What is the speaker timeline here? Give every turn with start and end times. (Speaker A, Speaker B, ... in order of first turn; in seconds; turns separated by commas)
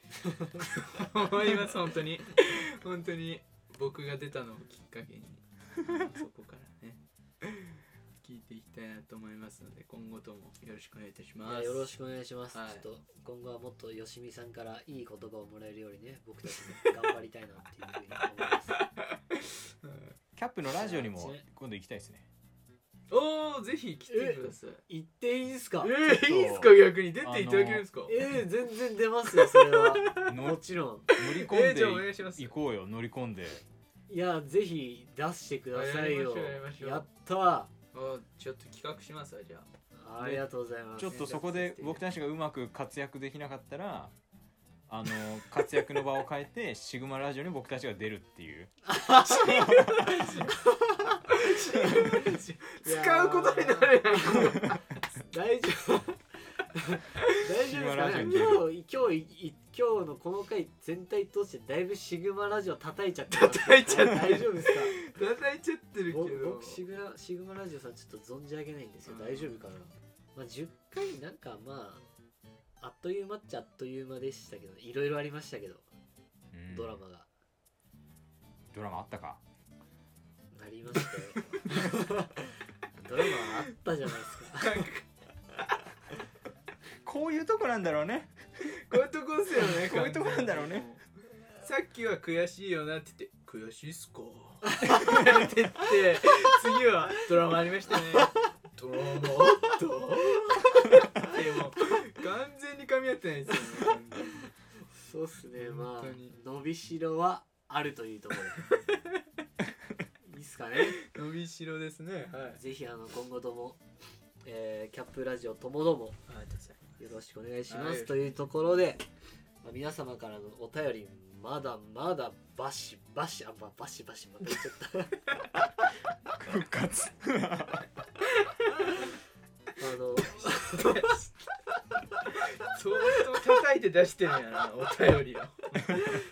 Speaker A: 0.6-11.9, Speaker B: 11.4-18.8, Speaker A: 12.5-12.8, Speaker A: 19.3-20.1, Speaker C: 20.4-22.3, Speaker B: 20.7-21.4, Speaker A: 23.1-24.8, Speaker B: 24.1-25.9, Speaker A: 25.8-28.3, Speaker C: 26.1-27.9, Speaker B: 28.1-31.1, Speaker A: 29.4-30.4, Speaker C: 30.3-30.6, Speaker C: 31.1-33.6, Speaker A: 31.2-32.5, Speaker B: 34.1-37.7, Speaker A: 35.7-37.0, Speaker A: 37.9-40.4, Speaker B: 40.0-41.5, Speaker C: 41.0-44.1, Speaker A: 41.1-42.0, Speaker C: 44.9-48.7, Speaker B: 48.9-56.2, Speaker A: 49.3-50.5, Speaker C: 49.4-50.1, Speaker A: 51.3-54.9, Speaker B: 56.7-65.0, Speaker C: 57.6-58.7, Speaker A: 63.3-66.8, Speaker B: 66.1-72.0, Speaker A: 69.0-69.6, Speaker B: 72.8-75.9, Speaker C: 76.5-77.0, Speaker B: 76.7-77.3, Speaker C: 78.7-79.4, Speaker B: 80.5-84.9, Speaker A: 81.3-81.8, Speaker A: 84.3-85.8, Speaker C: 87.0-88.7, Speaker A: 88.6-91.0, Speaker C: 89.8-90.9, Speaker A: 91.6-104.4, Speaker B: 104.9-108.6, Speaker A: 105.6-106.3, Speaker B: 110.2-111.0, Speaker A: 111.0-112.6, Speaker B: 112.5-113.8, Speaker B: 114.4-116.2, Speaker A: 116.3-117.0, Speaker B: 117.0-119.0, Speaker A: 117.7-118.5, Speaker B: 119.6-125.2, Speaker C: 126.3-127.9, Speaker B: 129.8-131.1, Speaker A: 130.5-131.3, Speaker A: 132.3-136.0